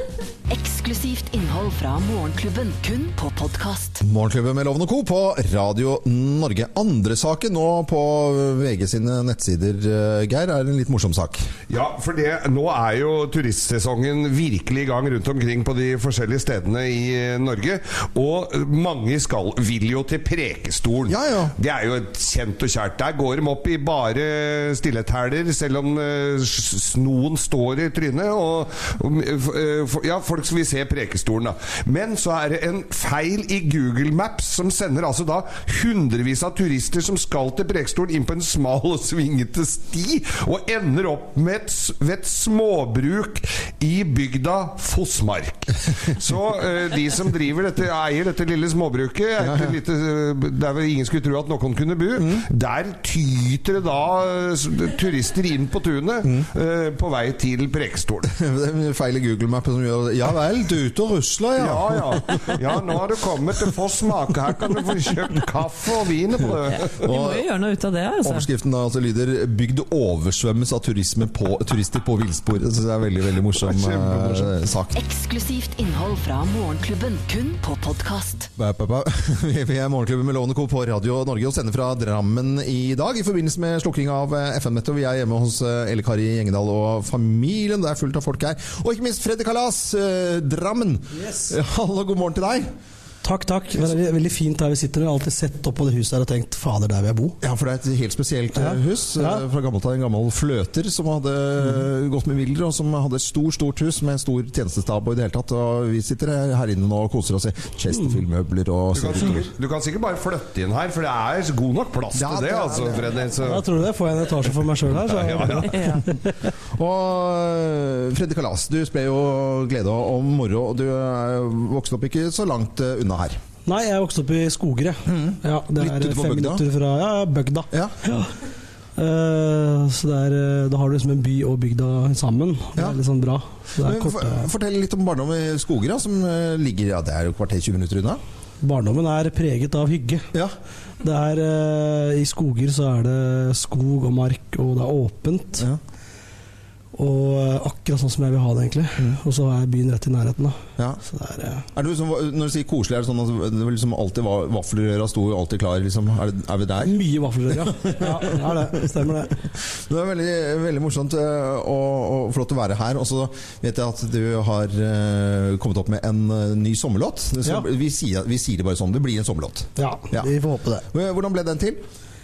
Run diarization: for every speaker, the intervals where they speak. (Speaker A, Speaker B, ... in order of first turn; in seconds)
Speaker A: 0.5-4.0, 74.9-78.5
Speaker B: 4.0-11.5, 21.1-21.5, 49.4-49.7, 52.2-52.5, 58.3-62.5, 67.0-67.5, 68.2-75.0, 78.6-92.7, 97.4-109.5, 112.1-113.2, 116.7-123.4, 125.1-126.6, 133.8-138.2, 151.7-157.0, 157.5-158.9, 159.8-170.3, 170.9-171.8
Speaker C: 11.7-58.3, 61.6-66.9, 73.5-74.5, 108.9-113.7, 114.8-115.9
Speaker D: 66.7-68.5, 115.7-116.0
Speaker E: 91.1-91.5, 93.2-97.4, 98.5-99.4, 107.9-108.2, 113.4-116.3, 123.7-128.3, 129.0-134.5, 138.6-140.3, 141.0-145.7, 147.0-151.7, 156.8-159.3, 169.8-170.9